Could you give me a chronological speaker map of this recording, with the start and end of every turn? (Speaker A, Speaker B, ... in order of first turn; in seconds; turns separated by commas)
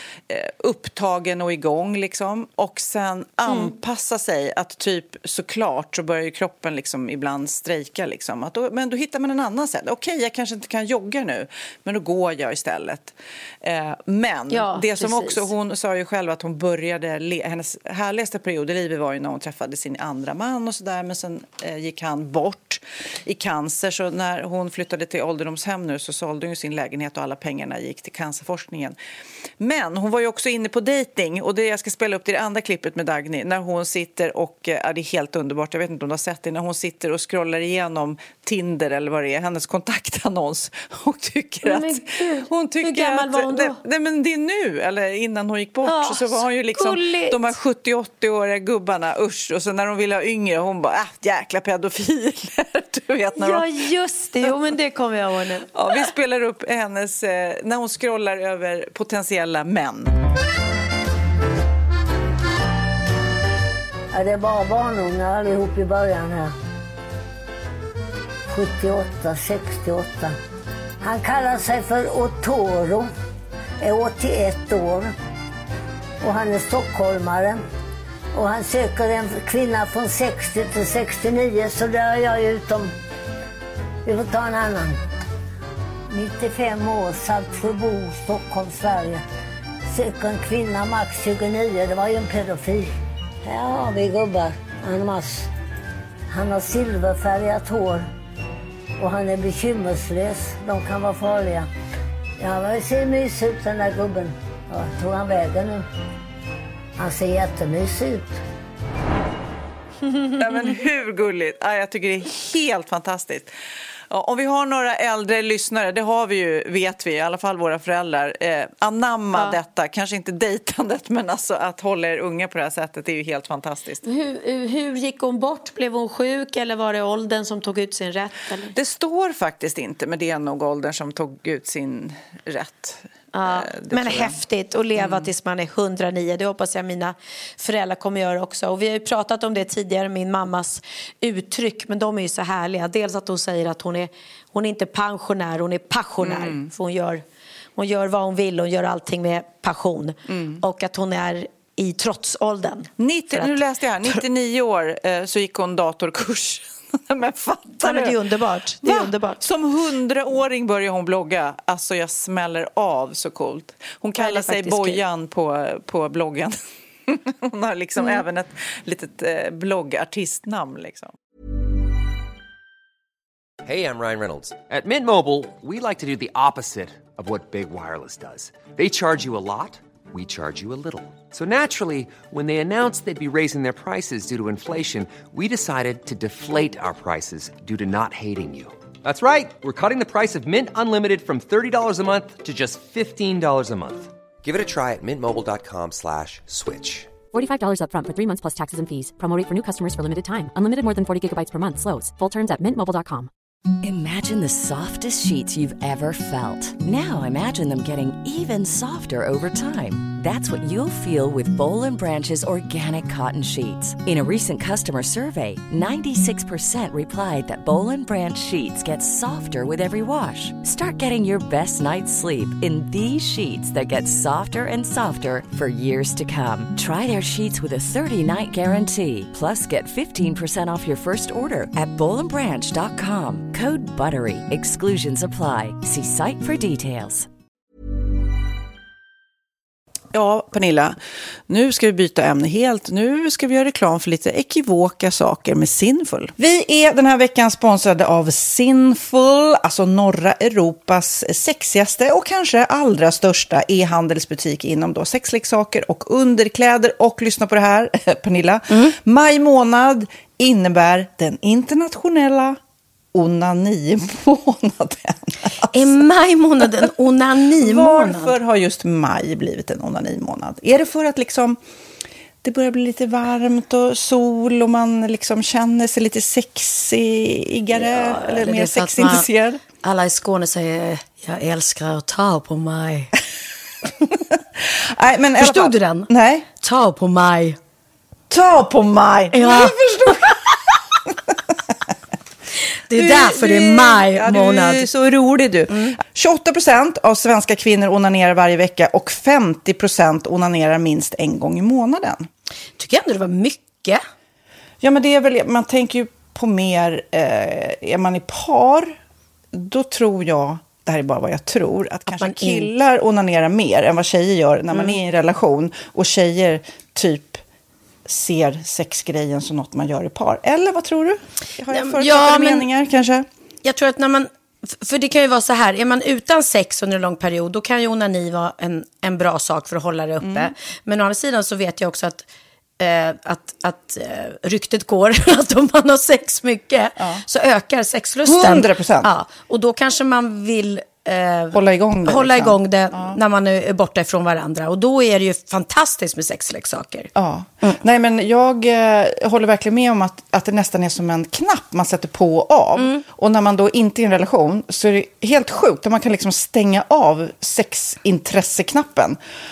Speaker A: 0.3-28.9, Speaker B: 14.5-15.5, Speaker A: 29.6-53.7, Speaker B: 41.6-43.8, Speaker B: 45.8-47.5, Speaker B: 53.3-55.7, Speaker A: 55.7-60.2, Speaker C: 64.1-66.5, Speaker C: 68.5-70.4, Speaker C: 71.0-73.1, Speaker C: 73.8-75.1, Speaker C: 76.2-77.6, Speaker C: 78.3-82.9, Speaker C: 84.0-85.0, Speaker C: 86.1-89.2, Speaker C: 89.9-92.9, Speaker C: 93.4-95.5, Speaker C: 96.3-98.1, Speaker C: 99.0-101.7, Speaker C: 102.4-105.8, Speaker C: 107.0-108.4, Speaker A: 110.4-113.5, Speaker A: 114.1-124.0, Speaker B: 124.0-128.7, Speaker A: 128.7-134.4, Speaker B: 133.3-147.2, Speaker A: 134.9-135.3, Speaker A: 146.2-146.7, Speaker B: 147.8-154.2, Speaker A: 150.3-150.6, Speaker A: 153.0-158.2, Speaker B: 157.8-159.4, Speaker A: 158.8-171.1, Speaker B: 164.2-165.0, Speaker D: 173.6-197.1, Speaker E: 197.3-203.3, Speaker F: 203.8-237.3, Speaker A: 240.1-241.0, Speaker A: 241.5-262.6, Speaker B: 258.7-258.9, Speaker A: 263.1-265.9, Speaker B: 265.7-268.3, Speaker A: 267.6-271.6, Speaker A: 272.4-279.6, Speaker B: 277.8-279.3, Speaker B: 279.8-283.1, Speaker A: 284.6-286.5, Speaker B: 285.4-286.1, Speaker B: 286.6-287.6, Speaker A: 288.3-290.5, Speaker B: 289.3-290.3, Speaker B: 292.9-294.9, Speaker A: 292.9-302.3, Speaker B: 295.7-295.9, Speaker B: 302.8-304.0, Speaker A: 304.8-308.9, Speaker A: 309.5-317.4, Speaker B: 312.1-312.7, Speaker A: 318.1-323.3, Speaker B: 321.7-322.6, Speaker B: 323.6-332.2, Speaker A: 330.2-330.5, Speaker B: 332.8-347.1, Speaker A: 338.2-339.1, Speaker A: 341.5-343.2, Speaker A: 347.1-359.2, Speaker B: 352.8-353.0